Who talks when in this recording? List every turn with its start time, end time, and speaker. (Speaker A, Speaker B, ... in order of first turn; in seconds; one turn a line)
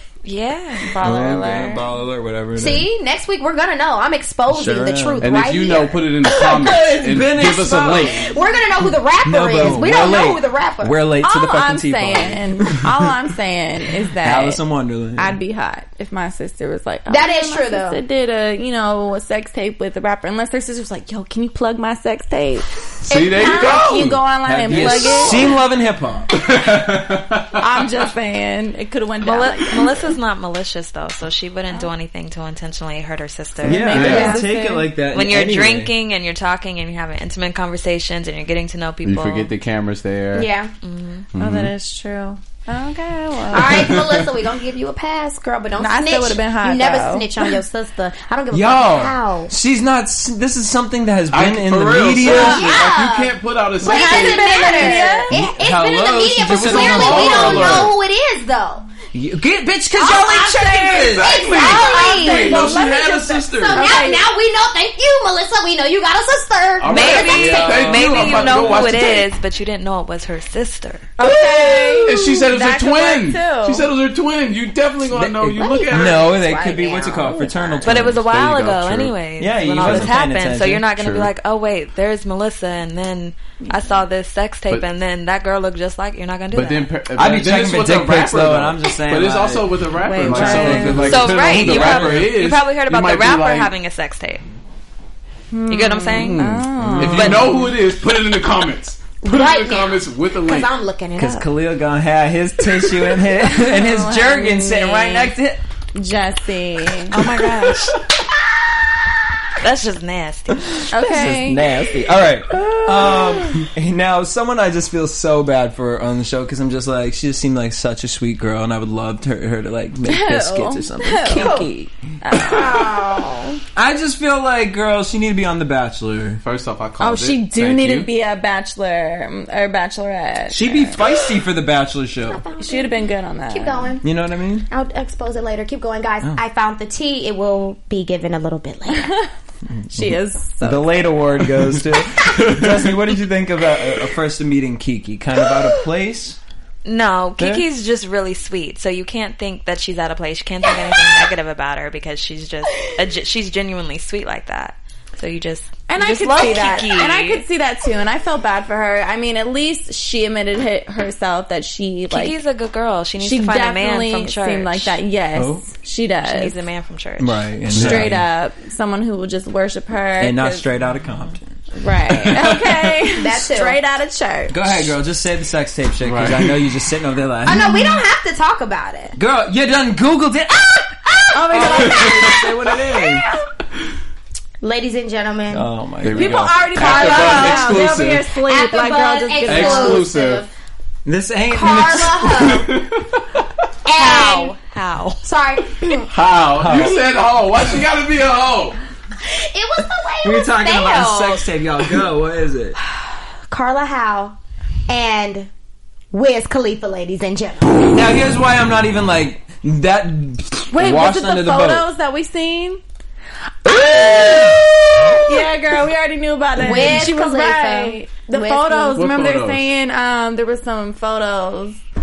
Speaker A: 0.2-0.9
Speaker B: 0.8-1.8
Speaker C: 1.0-2.9
Speaker D: 2.5-7.2
Speaker C: 4.5-5.3
Speaker E: 5.2-8.3
Speaker C: 6.4-8.3
Speaker D: 8.0-11.0
Speaker C: 9.2-13.1
Speaker B: 11.2-14.6
Speaker C: 14.2-15.4
Speaker B: 15.2-22.7
Speaker D: 17.1-18.0
Speaker E: 23.0-25.3
Speaker D: 23.1-24.0
Speaker B: 23.3-25.5
Speaker C: 24.4-26.3
Speaker E: 26.3-27.6
Speaker B: 27.6-30.1
Speaker A: 29.2-34.0
Speaker C: 33.6-35.9
Speaker B: 33.6-34.9
Speaker E: 33.9-34.4
Speaker D: 34.0-34.5
Speaker A: 35.1-39.5
Speaker E: 39.0-40.5
Speaker D: 40.3-40.7
Speaker A: 40.8-41.3
Speaker E: 41.3-41.7
Speaker B: 41.4-44.0
Speaker D: 43.5-49.5
Speaker E: 43.6-44.3
Speaker B: 45.8-47.3
Speaker C: 48.5-52.8
Speaker E: 51.3-55.1
Speaker D: 52.2-58.9
Speaker B: 53.8-55.4
Speaker C: 55.3-57.9
Speaker E: 56.4-58.0
Speaker C: 59.1-63.8
Speaker D: 59.9-68.9
Speaker E: 61.0-63.9
Speaker B: 61.7-62.7
Speaker B: 63.7-64.2
Speaker E: 66.8-69.2
Speaker A: 66.9-71.1
Speaker C: 67.5-68.9
Speaker B: 71.2-73.9
Speaker C: 71.2-72.1
Speaker E: 72.0-76.3
Speaker C: 75.1-78.2
Speaker D: 75.6-78.0
Speaker A: 77.8-86.9
Speaker E: 77.9-79.1
Speaker C: 79.4-80.8
Speaker E: 79.8-80.1
Speaker E: 80.9-81.3
Speaker E: 86.5-93.7
Speaker C: 87.2-92.3
Speaker B: 90.0-91.1
Speaker A: 91.0-94.4
Speaker B: 95.5-97.7
Speaker A: 95.7-96.5
Speaker E: 96.1-100.8
Speaker A: 97.0-97.5
Speaker D: 99.2-101.5
Speaker C: 101.1-105.6
Speaker B: 103.5-105.3
Speaker B: 105.9-107.1
Speaker A: 107.1-108.0
Speaker A: 109.6-110.9
Speaker C: 110.7-121.9
Speaker B: 110.9-111.7
Speaker B: 112.7-113.2
Speaker B: 120.0-123.2
Speaker D: 121.3-121.7
Speaker D: 122.3-123.6
Speaker C: 123.8-126.4
Speaker E: 126.4-128.1
Speaker B: 127.0-131.0
Speaker C: 130.5-132.4
Speaker D: 132.3-134.0
Speaker B: 132.6-134.0
Speaker C: 134.0-134.7
Speaker D: 134.7-139.1
Speaker C: 139.7-146.4
Speaker B: 139.9-141.1
Speaker E: 142.2-142.9
Speaker A: 146.8-157.4
Speaker C: 147.4-147.6
Speaker B: 155.9-162.3
Speaker D: 156.4-156.9
Speaker A: 162.1-165.0
Speaker B: 163.2-166.6
Speaker C: 165.3-165.7
Speaker A: 166.2-167.5
Speaker C: 167.2-168.2
Speaker E: 167.7-168.1
Speaker B: 167.7-170.7
Speaker C: 170.2-171.6
Speaker B: 171.7-174.6
Speaker C: 172.2-172.9
Speaker D: 173.1-173.8
Speaker C: 174.5-178.0
Speaker E: 176.0-176.7
Speaker D: 177.4-179.2
Speaker C: 179.2-183.2
Speaker B: 181.3-182.3
Speaker D: 181.4-183.1
Speaker D: 184.6-187.9
Speaker C: 185.5-187.8
Speaker E: 186.0-188.3
Speaker B: 186.2-190.1
Speaker D: 188.4-190.5
Speaker E: 189.4-190.4
Speaker C: 191.0-192.8
Speaker D: 191.5-192.7
Speaker E: 192.5-193.4
Speaker D: 193.8-194.5
Speaker A: 193.9-195.2
Speaker D: 195.2-196.1
Speaker E: 196.1-198.8
Speaker C: 196.5-197.0
Speaker D: 199.2-201.5
Speaker C: 200.2-202.8
Speaker D: 203.5-204.3
Speaker D: 204.9-205.5
Speaker D: 206.1-207.9
Speaker C: 207.8-211.9
Speaker B: 210.7-212.8
Speaker C: 213.6-215.1
Speaker D: 213.7-215.4
Speaker B: 215.2-221.8
Speaker D: 216.6-219.0
Speaker E: 218.9-219.7